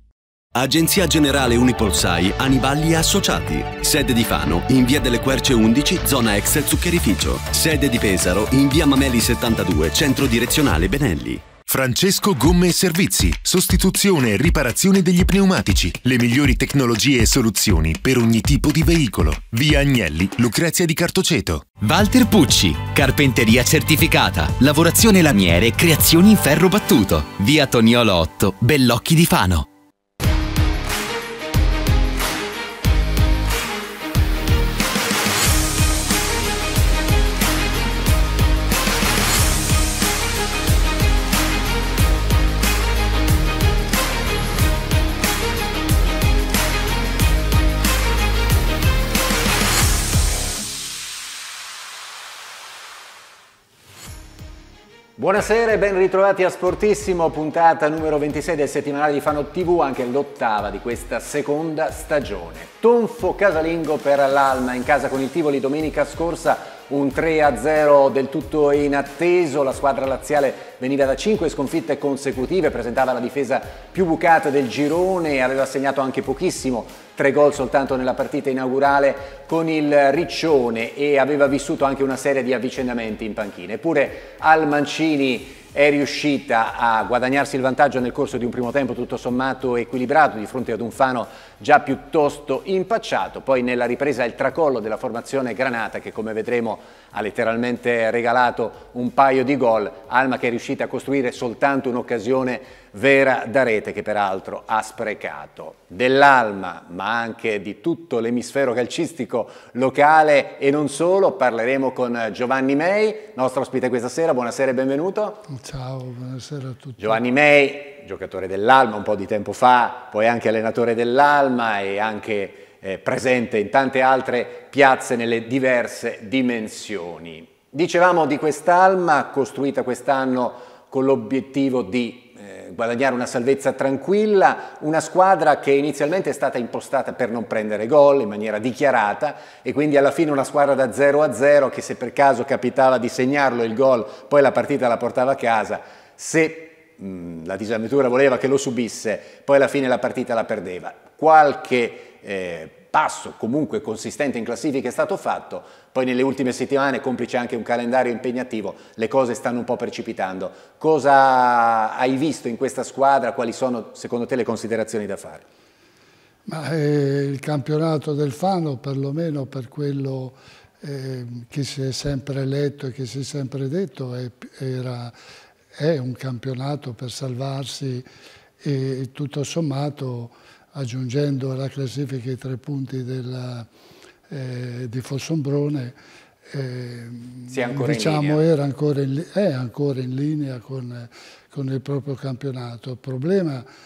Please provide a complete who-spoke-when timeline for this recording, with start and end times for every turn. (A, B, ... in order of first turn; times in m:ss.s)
0:00.5-0:11.5 A
0:11.6-0:21.7 B
0:21.8-0:29.6 C
0:55.2-1:55.4 D
1:55.5-1:57.2 E
1:57.0-2:45.4 D
2:46.5-2:55.1 E
2:55.7-2:58.0 E
2:58.6-3:03.7 E
3:04.3-3:06.0 E
3:06.5-3:13.6 E
3:07.5-3:08.4 D